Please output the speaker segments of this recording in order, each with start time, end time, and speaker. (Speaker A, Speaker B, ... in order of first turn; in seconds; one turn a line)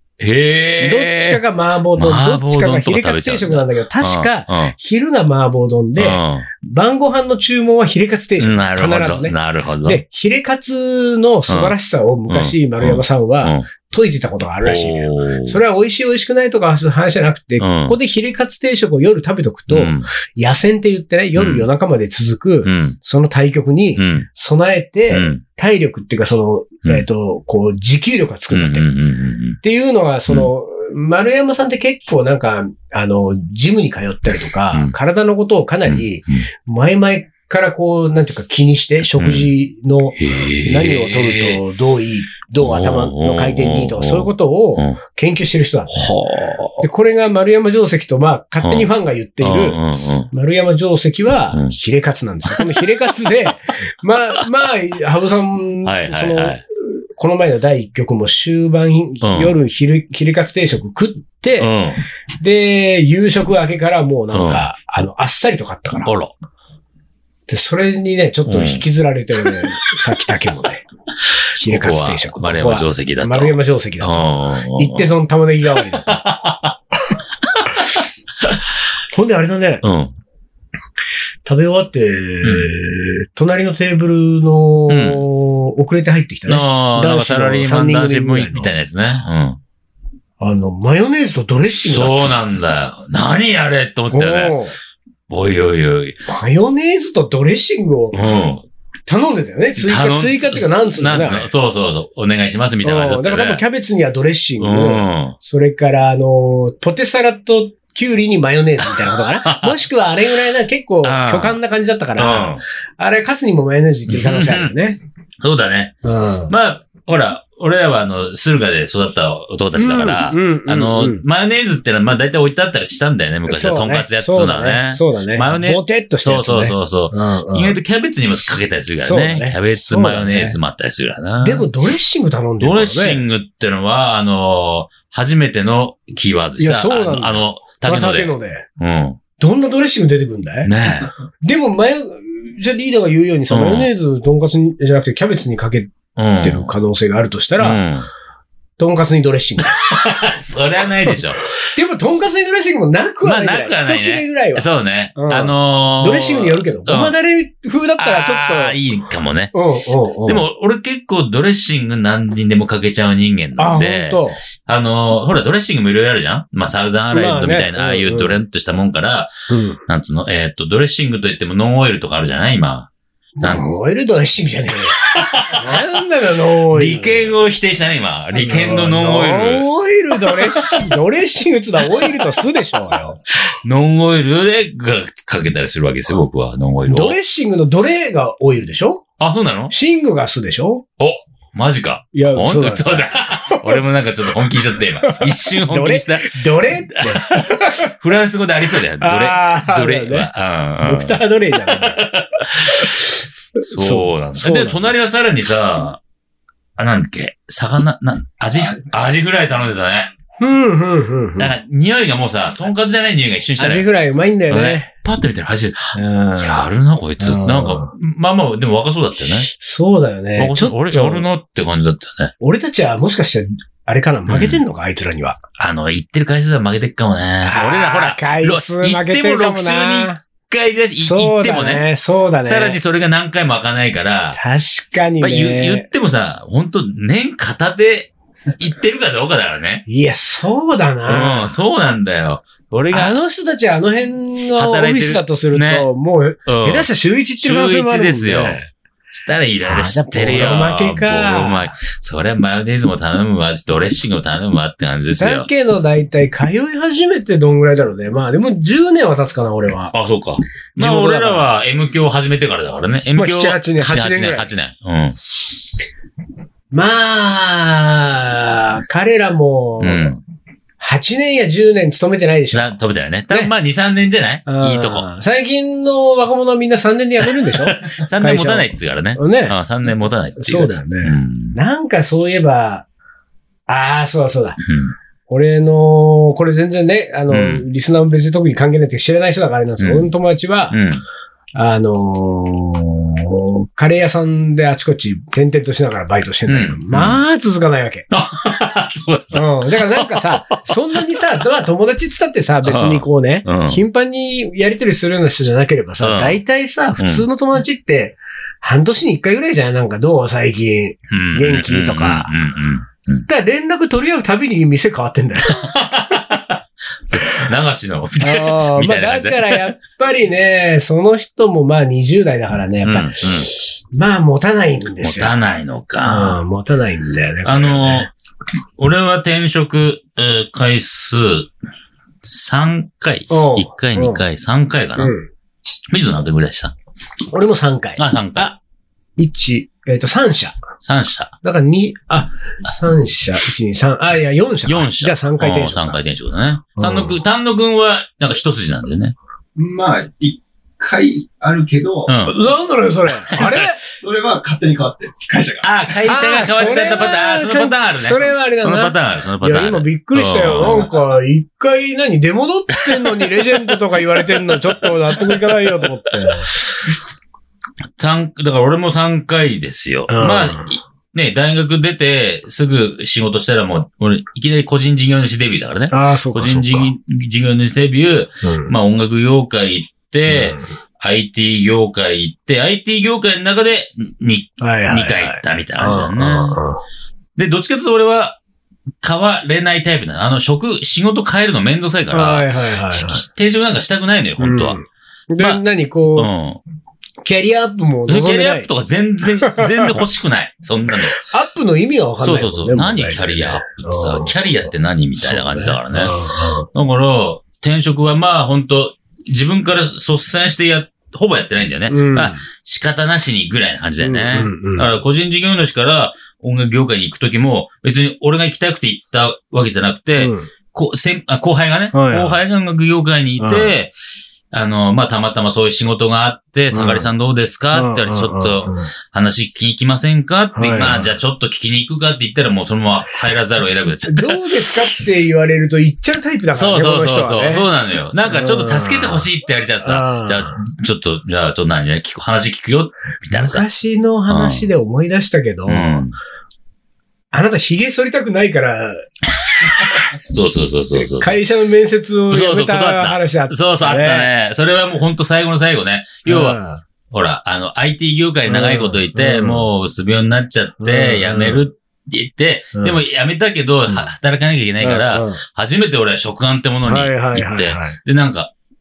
Speaker A: 0.2-1.4
Speaker B: 0.8-28.9
Speaker A: 2.0-4.7
Speaker A: 6.0-6.5
Speaker A: 8.4-10.0
Speaker A: 11.5-11.8
Speaker A: 12.3-13.6
Speaker A: 14.6-15.6
Speaker A: 17.6-17.9
Speaker A: 19.7-20.1
Speaker A: 21.4-21.7
Speaker A: 22.6-23.0
Speaker A: 24.0-24.2
Speaker A: 25.1-25.4
Speaker A: 28.5-29.6
Speaker B: 29.6-46.1
Speaker A: 35.9-36.5
Speaker A: 39.2-39.5
Speaker A: 40.2-41.6
Speaker A: 42.6-45.0
Speaker A: 45.9-46.8
Speaker B: 46.8-49.8
Speaker A: 48.6-48.9
Speaker A: 49.4-50.3
Speaker B: 50.3-61.7
Speaker A: 52.5-52.8
Speaker A: 55.8-56.6
Speaker A: 59.2-59.5
Speaker A: 61.6-62.0
Speaker B: 62.4-66.1
Speaker A: 64.3-64.7
Speaker A: 66.1-66.3
Speaker B: 67.5-70.8
Speaker A: 68.5-68.8
Speaker A: 69.5-69.7
Speaker A: 71.5-75.1
Speaker B: 71.6-76.2
Speaker A: 75.8-76.8
Speaker B: 79.1-79.8
Speaker A: 79.8-80.1
Speaker B: 81.4-88.7
Speaker A: 82.4-82.7
Speaker A: 84.9-85.2
Speaker A: 86.5-89.6
Speaker B: 90.4-92.4
Speaker A: 91.8-94.6
Speaker B: 94.1-94.7
Speaker A: 95.3-96.2
Speaker B: 96.3-98.2
Speaker A: 98.1-98.7
Speaker B: 99.1-101.5
Speaker A: 99.8-103.6
Speaker B: 102.8-115.0
Speaker A: 104.6-105.4
Speaker A: 108.8-109.8
Speaker A: 111.0-111.6
Speaker A: 112.2-112.6
Speaker A: 114.1-114.7
Speaker A: 115.4-116.0
Speaker B: 116.0-116.5
Speaker A: 116.5-131.7
Speaker B: 119.8-121.2
Speaker B: 123.5-127.8
Speaker B: 129.0-130.6
Speaker B: 131.4-133.2
Speaker A: 132.6-139.2
Speaker B: 136.6-138.7
Speaker B: 139.4-140.7
Speaker A: 140.6-141.1
Speaker B: 141.4-147.8
Speaker A: 143.5-143.9
Speaker A: 146.2-146.7
Speaker A: 147.6-148.1
Speaker B: 148.8-149.8
Speaker A: 149.8-151.4
Speaker B: 151.1-158.8
Speaker A: 153.2-157.2
Speaker A: 158.0-159.5
Speaker B: 159.5-160.4
Speaker A: 160.2-169.3
Speaker B: 163.6-164.4
Speaker B: 167.1-168.4
Speaker B: 169.5-169.8
Speaker A: 169.9-172.9
Speaker B: 173.4-177.3
Speaker A: 175.1-175.8
Speaker A: 176.7-180.9
Speaker B: 178.3-183.2
Speaker A: 181.9-182.2
Speaker A: 183.5-187.2
Speaker B: 186.8-189.0
Speaker A: 189.2-189.7
Speaker B: 189.7-190.8
Speaker A: 191.0-203.0
Speaker B: 192.1-193.8
Speaker B: 195.0-197.9
Speaker B: 199.0-200.3
Speaker B: 200.8-202.1
Speaker B: 202.7-204.8
Speaker A: 203.6-206.0
Speaker A: 206.8-210.1
Speaker B: 210.4-211.5
Speaker A: 211.4-213.9
Speaker B: 213.6-214.9
Speaker A: 214.5-219.5
Speaker B: 215.9-216.7
Speaker B: 217.2-217.9
Speaker B: 219.3-221.2
Speaker A: 220.4-222.3
Speaker B: 222.4-225.4
Speaker A: 224.3-224.6
Speaker A: 225.6-231.8
Speaker B: 227.4-230.2
Speaker B: 231.0-232.8
Speaker A: 232.4-234.4
Speaker B: 234.3-235.9
Speaker A: 235.2-239.8
Speaker B: 239.9-241.6
Speaker A: 241.1-243.2
Speaker B: 242.9-248.7
Speaker A: 244.6-245.9
Speaker A: 246.5-246.9
Speaker A: 247.4-255.5
Speaker B: 249.6-251.7
Speaker B: 255.2-259.9
Speaker A: 259.9-265.2
Speaker B: 260.8-261.5
Speaker B: 263.2-264.5
Speaker B: 266.7-270.1
Speaker A: 269.8-270.2
Speaker B: 270.8-272.7
Speaker A: 272.5-275.1
Speaker B: 274.5-279.6
Speaker A: 277.4-281.6
Speaker B: 280.4-282.9
Speaker B: 283.7-284.6
Speaker A: 284.6-284.9
Speaker B: 285.3-290.8
Speaker A: 287.3-287.7
Speaker A: 289.8-290.1
Speaker A: 290.7-291.0
Speaker B: 291.6-298.1
Speaker A: 296.5-297.2
Speaker A: 298.1-301.1
Speaker B: 299.3-312.4
Speaker A: 302.6-303.8
Speaker A: 306.0-306.4
Speaker A: 307.0-307.3
Speaker A: 311.1-313.3
Speaker B: 313.3-315.7
Speaker A: 315.5-316.6
Speaker A: 317.1-319.7
Speaker B: 318.2-325.4
Speaker A: 322.8-323.5
Speaker A: 325.0-326.4
Speaker B: 326.0-328.1
Speaker A: 327.4-328.1
Speaker A: 328.8-331.5
Speaker A: 332.2-335.1
Speaker B: 333.3-334.2
Speaker B: 335.0-335.3
Speaker A: 335.9-336.7
Speaker B: 337.3-338.6
Speaker A: 338.0-338.5
Speaker B: 339.2-340.6
Speaker A: 340.8-341.3
Speaker B: 341.4-346.0
Speaker A: 344.7-349.1
Speaker B: 346.8-347.1
Speaker C: 349.6-352.1
Speaker A: 352.1-352.4
Speaker B: 352.2-353.8
Speaker A: 353.3-353.7
Speaker C: 354.0-355.8
Speaker A: 355.6-360.9
Speaker B: 356.0-366.5
Speaker A: 362.9-363.7
Speaker A: 364.3-365.6
Speaker A: 368.0-386.6
Speaker B: 370.1-370.7
Speaker B: 375.9-376.9
Speaker B: 378.4-378.7
Speaker B: 380.3-380.7
Speaker B: 384.6-386.8
Speaker A: 387.4-388.4
Speaker A: 389.0-394.8
Speaker B: 392.1-393.2
Speaker B: 394.4-396.3
Speaker A: 396.1-396.6
Speaker B: 397.2-398.7
Speaker A: 398.1-401.2
Speaker B: 399.4-400.0
Speaker B: 401.1-404.3
Speaker A: 402.2-406.2
Speaker B: 405.2-406.7
Speaker A: 406.7-423.9
Speaker B: 411.9-412.4
Speaker B: 414.0-414.9
Speaker B: 420.2-420.5
Speaker B: 421.9-422.4
Speaker B: 423.4-423.7
Speaker A: 424.5-434.4
Speaker B: 426.7-427.1
Speaker B: 427.7-428.9
Speaker B: 430.6-431.1
Speaker B: 434.0-437.7
Speaker A: 436.5-443.6
Speaker B: 438.3-439.3
Speaker B: 439.8-440.6
Speaker B: 443.3-446.0
Speaker A: 444.3-444.7
Speaker A: 445.7-446.1
Speaker B: 447.3-449.1
Speaker B: 449.6-450.0
Speaker A: 450.3-451.4
Speaker B: 450.9-454.3
Speaker A: 452.3-456.6
Speaker B: 456.2-456.8
Speaker A: 457.1-468.5
Speaker B: 458.5-459.7
Speaker B: 460.8-461.6
Speaker B: 462.7-463.0
Speaker B: 464.8-465.4
Speaker B: 466.8-468.0